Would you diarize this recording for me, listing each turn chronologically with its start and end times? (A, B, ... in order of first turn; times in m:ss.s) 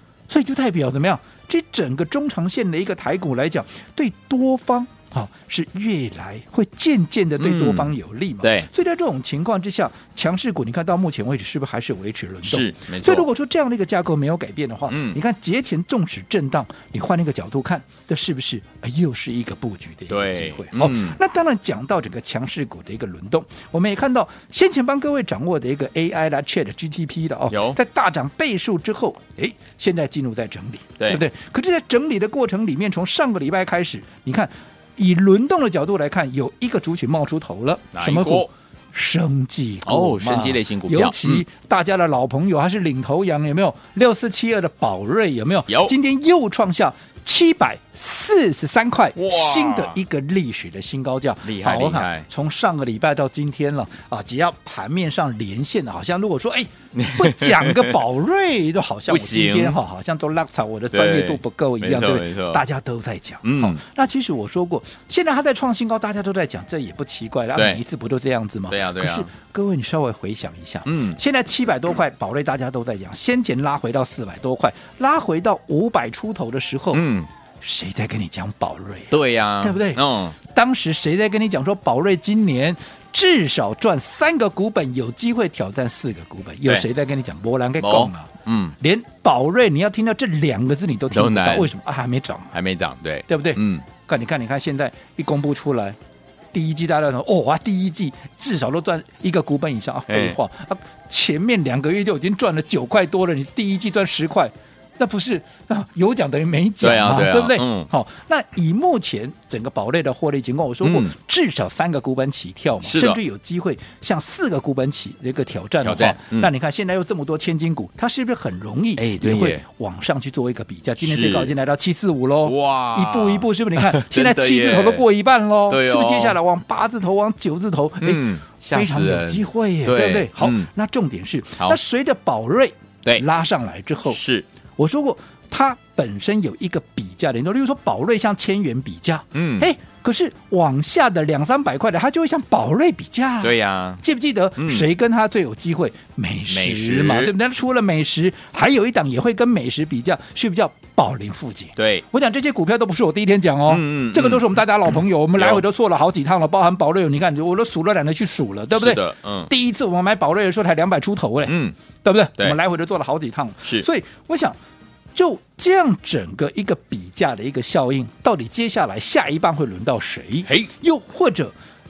0:00.3-1:17.0 A
0:07.4-0:08.7 B
0:12.4-0:13.3 B
0:14.9-0:15.2 B
0:20.1-0:21.2 B
0:27.5-0:27.8 B
0:37.9-0:38.5 B
0:39.8-0:41.4 B
0:45.7-0:45.9 B
0:49.1-0:50.0 B
0:51.4-0:52.3 B
0:56.9-0:58.0 B
0:59.1-0:59.8 B
1:00.9-1:02.6 B
1:03.4-1:03.8 B
1:07.5-1:07.8 B
1:08.7-1:09.3 B
1:10.8-1:11.2 B
1:16.9-1:17.3 B
1:17.6-1:32.5 A
1:19.1-1:20.4 B
1:27.8-1:28.8 B
1:31.1-1:31.7 B
1:32.5-1:33.9 B
1:33.2-1:36.0 A
1:36.5-2:14.2 A
1:40.1-1:40.4 B
1:46.8-1:47.9 B
1:50.8-1:51.1 B
1:52.8-1:53.2 B
1:55.8-1:56.5 B
1:59.0-1:59.6 B
2:01.0-2:01.5 B
2:02.4-2:05.1 B
2:05.7-2:06.4 B
2:08.0-2:10.7 B
2:14.0-2:14.4 B
2:14.8-2:44.6 A
2:19.3-2:19.7 B
2:23.4-2:24.0 B
2:24.6-2:24.9 B
2:26.5-2:27.3 B
2:31.8-2:32.0 B
2:33.7-2:35.6 B
2:38.7-2:39.5 B
2:41.4-2:41.8 B
2:45.1-2:51.5 A
2:50.4-2:50.7 B